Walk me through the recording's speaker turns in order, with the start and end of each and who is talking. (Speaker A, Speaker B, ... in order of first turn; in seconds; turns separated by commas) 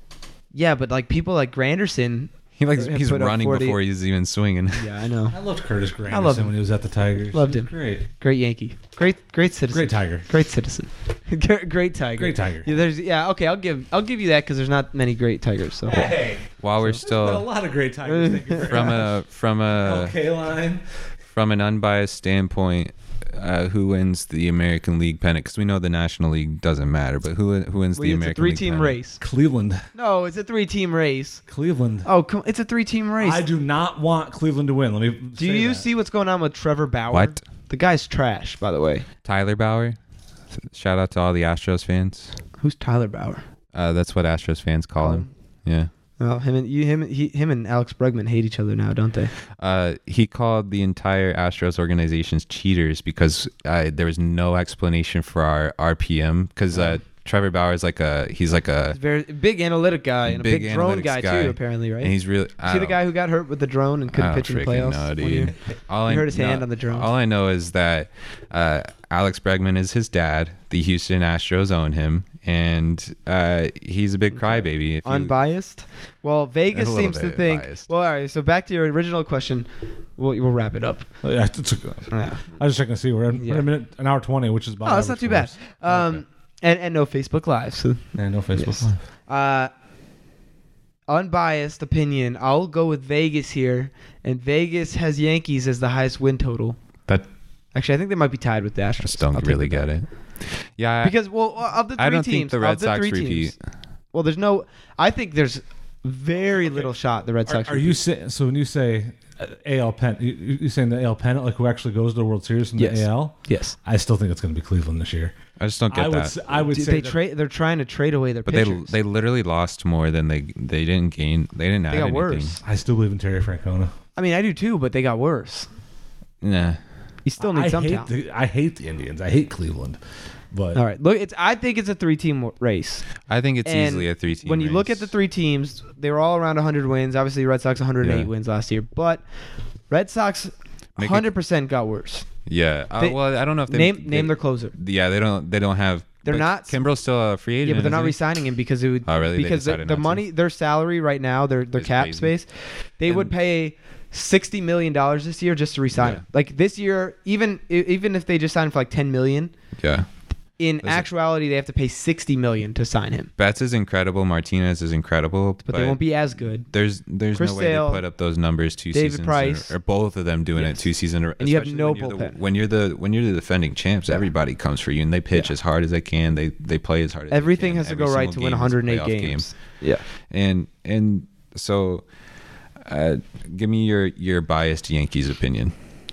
Speaker A: 0.5-3.8, Speaker B: 2.6-4.9, Speaker A: 4.8-5.4, Speaker C: 5.3-8.0, Speaker A: 6.1-6.5, Speaker A: 7.3-16.2, Speaker C: 9.7-10.3, Speaker C: 12.2-12.7, Speaker C: 15.9-19.2, Speaker B: 16.6-17.5, Speaker A: 18.1-18.9, Speaker B: 18.6-20.2, Speaker C: 19.8-20.8, Speaker B: 21.3-29.0, Speaker A: 27.9-29.2, Speaker C: 29.2-29.9, Speaker A: 29.9-31.4, Speaker C: 31.5-32.1, Speaker A: 32.0-33.4, Speaker C: 33.2-35.9, Speaker A: 35.4-39.1, Speaker B: 37.1-37.4, Speaker B: 39.2-40.0, Speaker B: 40.7-42.4, Speaker A: 42.6-43.4, Speaker B: 43.7-45.9, Speaker A: 45.0-45.3, Speaker A: 46.2-49.3, Speaker B: 49.6-59.0, Speaker A: 56.7-57.0, Speaker A: 58.9-65.5, Speaker B: 60.3-63.0, Speaker B: 64.1-75.3, Speaker A: 66.0-67.1, Speaker A: 74.3-81.1, Speaker B: 76.7-77.9, Speaker C: 81.2-86.2, Speaker A: 82.1-82.4, Speaker A: 83.4-83.7, Speaker A: 84.8-89.7, Speaker C: 88.2-89.0, Speaker A: 91.1-96.8, Speaker A: 97.7-100.0, Speaker B: 99.0-103.6, Speaker A: 101.0-103.5, Speaker A: 104.1-108.0, Speaker C: 106.6-106.9, Speaker C: 107.5-115.4, Speaker A: 112.8-113.8, Speaker B: 115.6-116.4, Speaker C: 115.9-117.2, Speaker A: 116.7-119.0, Speaker B: 118.5-122.6, Speaker A: 121.9-122.6, Speaker C: 122.6-123.9, Speaker A: 124.2-125.7, Speaker B: 126.4-126.8, Speaker A: 127.2-128.1, Speaker C: 127.4-130.0, Speaker C: 130.5-130.8, Speaker A: 130.7-139.2, Speaker B: 133.3-135.1, Speaker B: 138.0-138.3, Speaker A: 139.9-142.3, Speaker B: 141.0-141.3, Speaker B: 142.5-148.4, Speaker A: 143.0-144.7, Speaker A: 146.2-146.8, Speaker A: 147.6-159.5, Speaker B: 149.1-150.2, Speaker B: 151.8-152.3, Speaker B: 153.1-153.3, Speaker B: 155.9-156.2, Speaker B: 159.8-160.1, Speaker A: 160.6-163.3, Speaker B: 163.4-179.6, Speaker A: 165.7-166.7, Speaker A: 167.3-168.0, Speaker A: 168.9-169.7, Speaker A: 170.6-172.4, Speaker A: 177.3-180.0, Speaker B: 180.2-182.0, Speaker B: 182.8-185.7